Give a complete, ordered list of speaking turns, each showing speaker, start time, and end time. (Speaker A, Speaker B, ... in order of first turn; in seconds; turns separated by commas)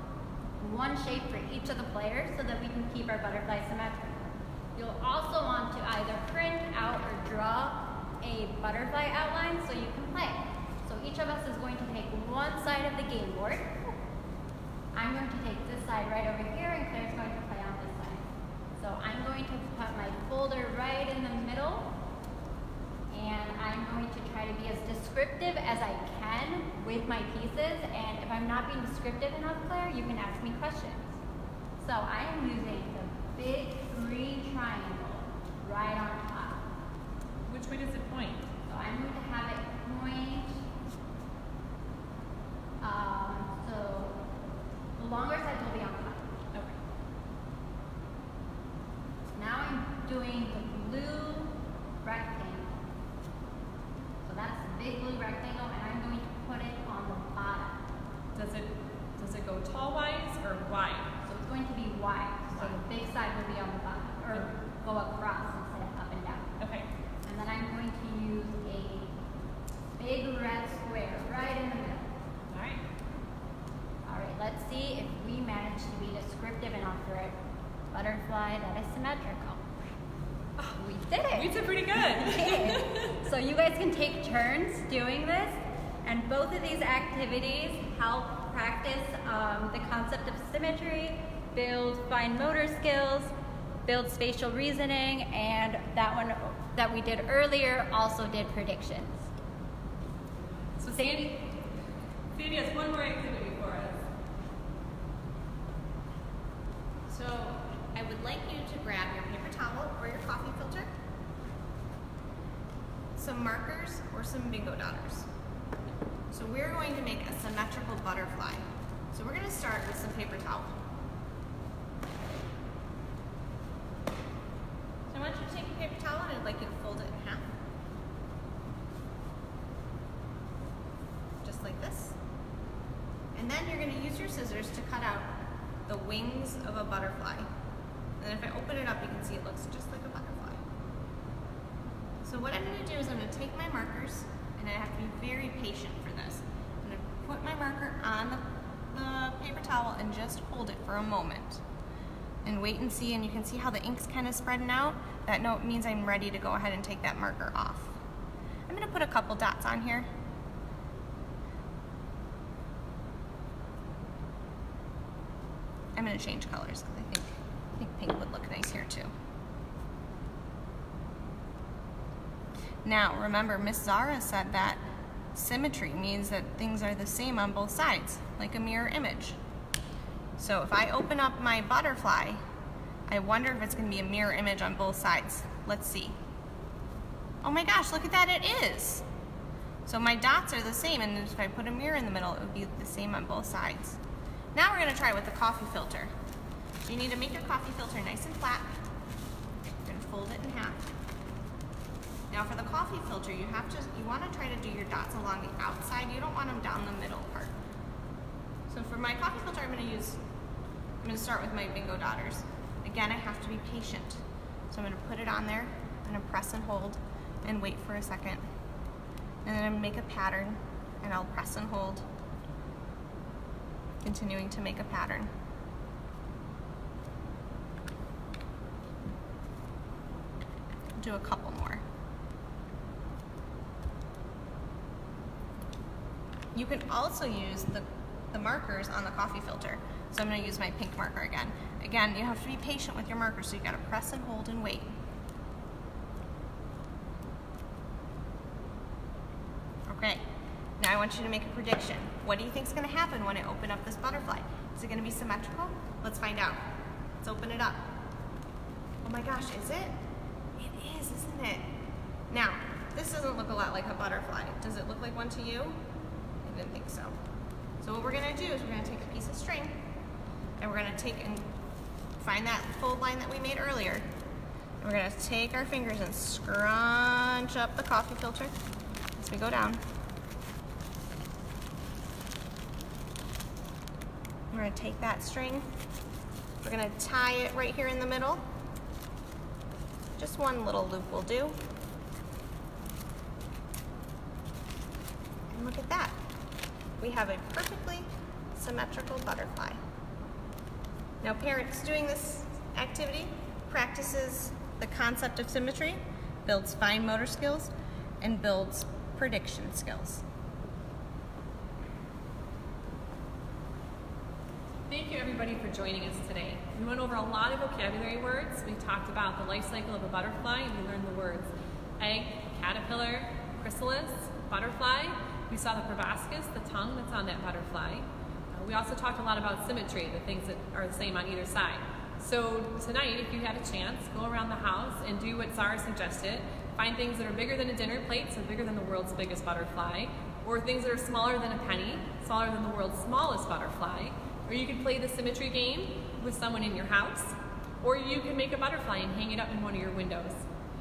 Speaker A: 0.6-13.9, Speaker A: 14.9-21.9, Speaker A: 23.1-31.1, Speaker A: 31.8-36.6, Speaker B: 37.5-38.4, Speaker A: 38.7-40.6, Speaker A: 42.8-44.2, Speaker A: 45.0-46.3, Speaker A: 49.3-52.8, Speaker A: 54.2-57.8, Speaker B: 58.3-61.1, Speaker A: 61.2-66.5, Speaker B: 66.6-66.9, Speaker A: 67.2-69.1, Speaker A: 69.9-72.1, Speaker B: 72.5-72.8, Speaker A: 74.0-77.3, Speaker A: 77.9-79.6, Speaker A: 80.8-93.3, Speaker B: 81.3-82.9, Speaker A: 93.8-99.3, Speaker B: 100.8-101.5, Speaker A: 100.9-101.3, Speaker B: 102.3-104.0, Speaker C: 107.1-110.9, Speaker C: 113.2-115.3, Speaker C: 116.3-120.7, Speaker C: 125.1-127.5, Speaker C: 131.4-132.2, Speaker C: 133.3-135.3, Speaker C: 135.9-137.4, Speaker C: 138.2-140.6, Speaker C: 142.2-151.6, Speaker C: 152.4-157.9, Speaker C: 158.7-160.1, Speaker C: 165.9-169.1, Speaker C: 172.8-174.8, Speaker C: 175.3-179.4, Speaker C: 180.4-182.4, Speaker C: 183.1-186.1, Speaker C: 187.4-189.0, Speaker C: 189.8-194.0, Speaker C: 194.5-196.1, Speaker C: 196.8-198.7, Speaker C: 199.8-200.8, Speaker C: 202.3-207.5, Speaker C: 208.7-210.2, Speaker C: 211.0-218.4, Speaker C: 219.4-222.1, Speaker C: 224.0-225.3, Speaker C: 231.0-231.8, Speaker C: 236.5-244.9, Speaker C: 249.9-250.2, Speaker C: 250.8-256.6, Speaker C: 257.2-257.8, Speaker C: 259.0-259.9, Speaker C: 260.6-261.6, Speaker C: 262.3-265.8, Speaker C: 266.4-267.1, Speaker C: 267.8-269.7, Speaker C: 270.6-271.4, Speaker C: 272.2-274.0, Speaker C: 274.8-278.5, Speaker C: 279.2-279.8, Speaker C: 284.5-285.7, Speaker C: 286.6-288.4, Speaker C: 290.2-291.6, Speaker C: 295.5-296.1, Speaker C: 297.0-299.8, Speaker C: 301.2-310.2, Speaker B: 314.9-350.4